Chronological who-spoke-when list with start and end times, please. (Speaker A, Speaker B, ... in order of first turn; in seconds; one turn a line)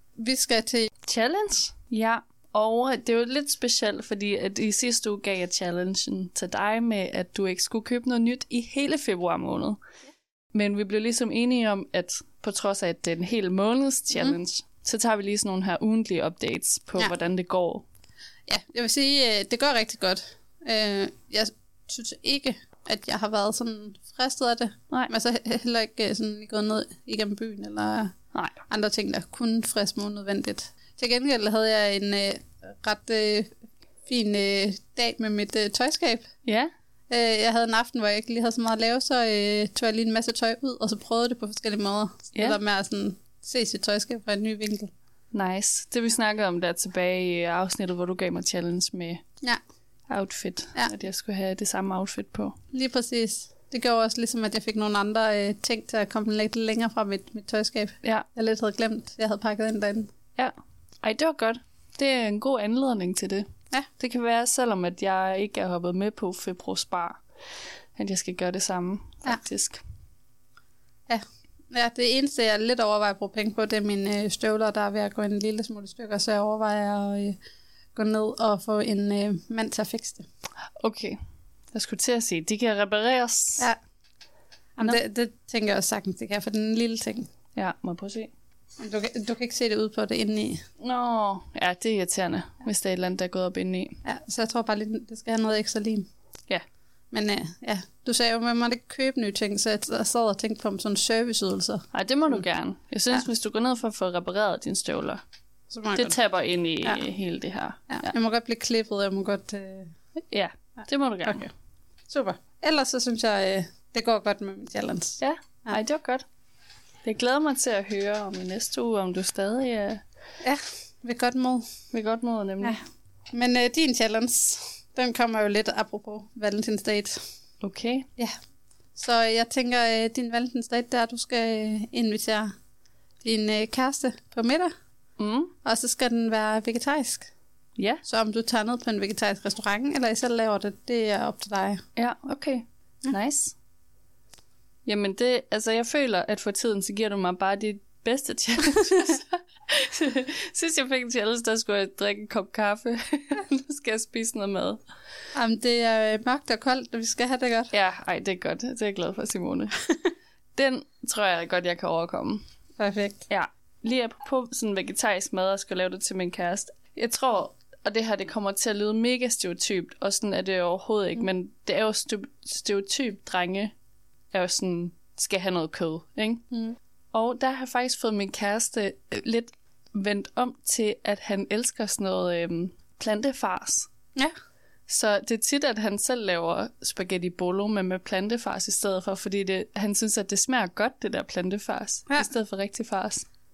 Speaker A: 0.2-0.9
Speaker B: 1.0-9.8
Speaker B: 10.5-17.9
Speaker A: 18.5-28.1
Speaker A: 28.7-36.3
Speaker B: 36.5-36.7
Speaker A: 37.1-44.9
Speaker B: 45.3-49.2
Speaker B: 50.1-52.6
Speaker A: 52.7-60.1
Speaker B: 61.0-67.2
Speaker B: 68.0-69.8
Speaker A: 71.1-77.4
Speaker A: 78.0-80.3
Speaker B: 80.8-81.2
Speaker B: 81.7-83.7
Speaker A: 84.8-87.3
Speaker B: 87.5-88.3
Speaker A: 88.8-90.6
Speaker B: 90.8-94.0
Speaker A: 94.0-96.1
Speaker A: 97.1-102.4
Speaker B: 101.9-105.2
Speaker A: 105.7-106.2
Speaker B: 106.0-108.1
Speaker A: 107.9-109.9
Speaker B: 110.3-111.5
Speaker A: 111.2-111.5
Speaker A: 112.1-115.8
Speaker B: 115.2-116.2
Speaker B: 117.0-120.0
Speaker A: 120.4-121.7
Speaker B: 121.9-122.8
Speaker A: 123.3-127.2
Speaker B: 127.6-128.1
Speaker A: 129.0-132.5
Speaker A: 133.2-134.7
Speaker B: 135.2-135.5
Speaker A: 135.6-137.3
Speaker B: 137.8-138.0
Speaker A: 138.1-141.8
Speaker B: 142.0-143.6
Speaker B: 144.9-154.8
Speaker A: 155.3-157.7
Speaker B: 157.7-159.8
Speaker B: 160.6-162.4
Speaker A: 162.8-163.2
Speaker B: 163.3-173.7
Speaker B: 174.3-176.4
Speaker B: 177.1-183.9
Speaker B: 184.9-193.3